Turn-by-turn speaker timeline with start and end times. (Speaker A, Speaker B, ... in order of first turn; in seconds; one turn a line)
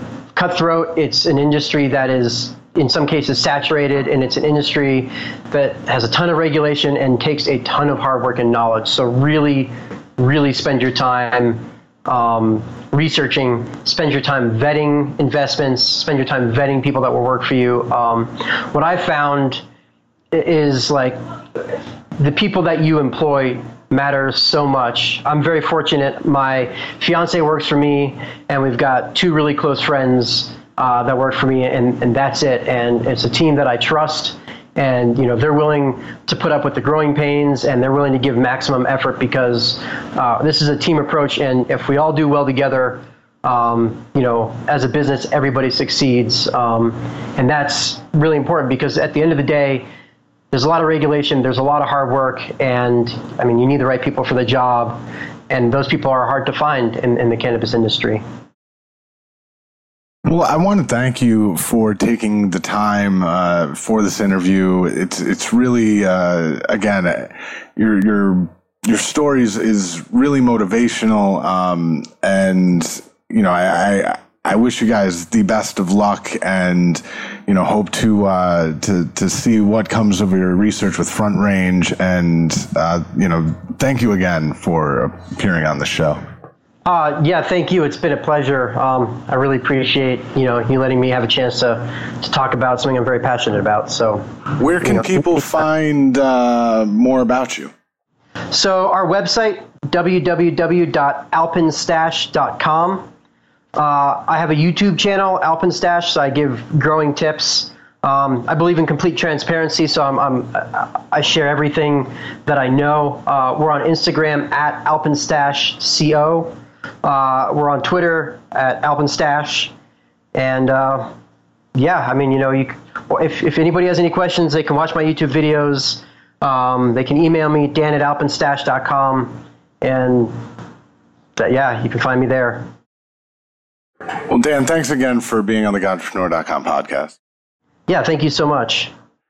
Speaker A: 0.3-19.6
Speaker A: 20.3-49.9
Speaker A: 50.5-58.2
Speaker B: 60.3-86.2
Speaker A: 86.8-94.2
Speaker B: 94.6-97.7
Speaker A: 98.5-103.1
Speaker A: 103.8-119.7
Speaker A: 120.3-121.1
Speaker A: 121.8-130.3
Speaker A: 131.4-132.7
Speaker B: 134.3-137.2
Speaker A: 137.9-138.9